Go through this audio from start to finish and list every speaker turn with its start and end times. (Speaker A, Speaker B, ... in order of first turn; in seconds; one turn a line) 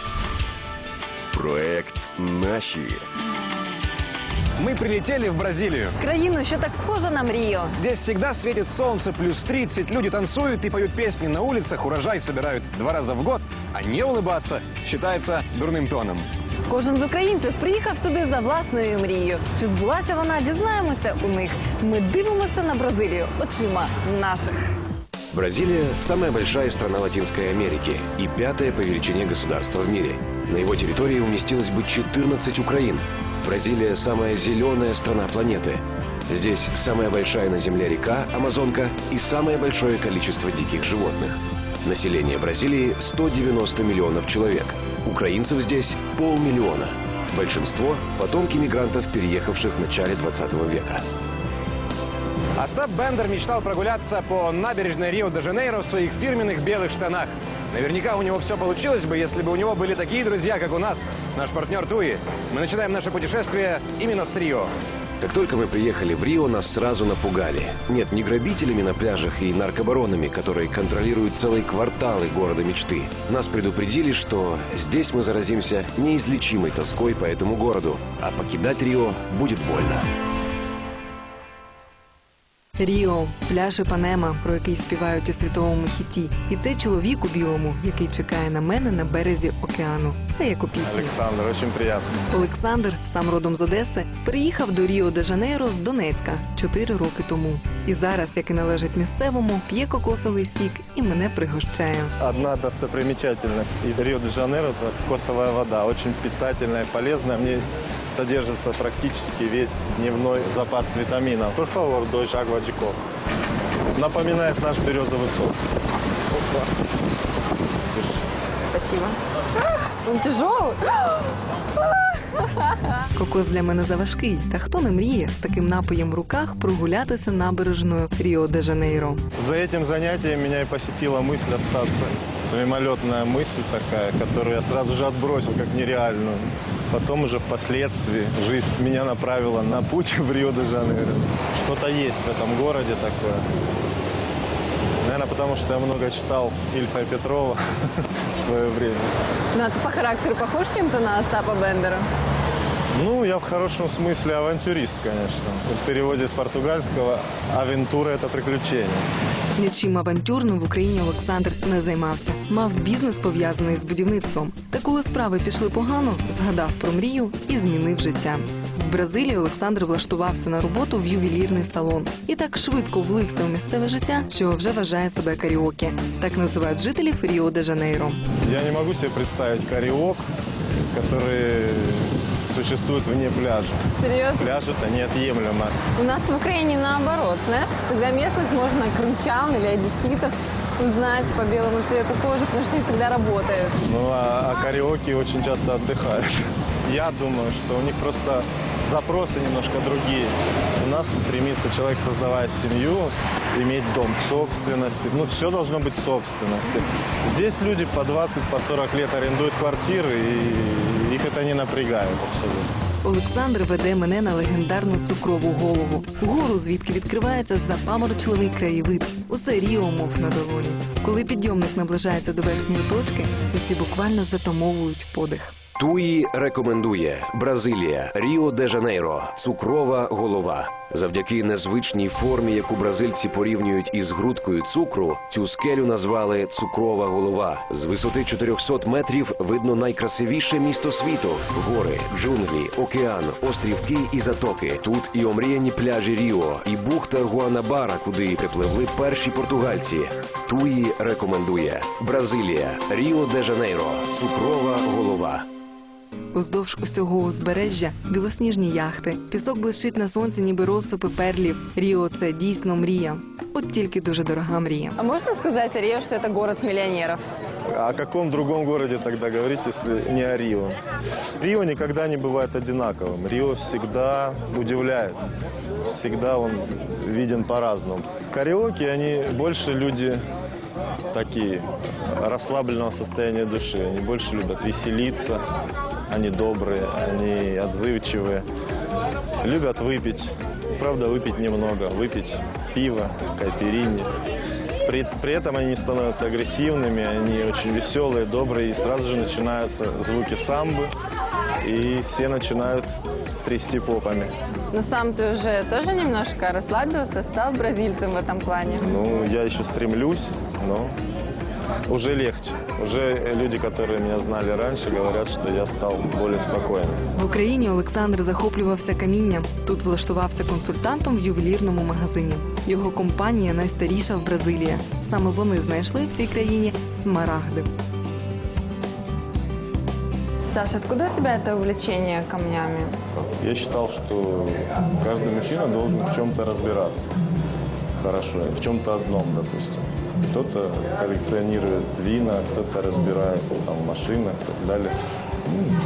Speaker A: 1.5-2.8
Speaker B: 4.6-6.0
Speaker C: 6.0-7.7
Speaker B: 7.8-16.3
Speaker C: 16.7-24.6
Speaker A: 25.3-51.0
Speaker B: 52.5-64.7
Speaker A: 65.2-80.1
Speaker D: 82.8-91.2
Speaker E: 90.8-92.1
Speaker D: 92.3-102.1
Speaker E: 102.2-113.0
Speaker E: 113.9-115.6
Speaker C: 118.7-121.2
Speaker C: 122.0-122.7
Speaker D: 123.1-129.2
Speaker E: 129.4-143.4
Speaker E: 145.0-147.6
Speaker E: 148.2-149.1
Speaker C: 149.5-152.1
Speaker E: 152.9-159.1
Speaker D: 159.6-178.2
Speaker E: 178.4-180.2
Speaker E: 180.9-183.8
Speaker C: 183.9-184.4
Speaker E: 184.4-185.9
Speaker C: 185.9-193.7
Speaker E: 193.8-212.7
Speaker D: 213.0-225.6
Speaker A: 225.8-255.5
Speaker D: 256.3-265.0
Speaker C: 265.0-267.2
Speaker E: 267.7-270.8
Speaker E: 271.4-275.2
Speaker E: 275.8-280.2
Speaker E: 281.1-285.4
Speaker E: 286.1-288.4
Speaker E: 289.4-294.1
Speaker E: 294.8-300.9
Speaker E: 301.6-304.3
Speaker C: 304.7-308.9
Speaker E: 308.8-310.9
Speaker E: 311.9-317.0
Speaker D: 317.1-327.7
Speaker C: 330.5-332.9
Speaker E: 333.4-337.1
Speaker E: 338.0-344.9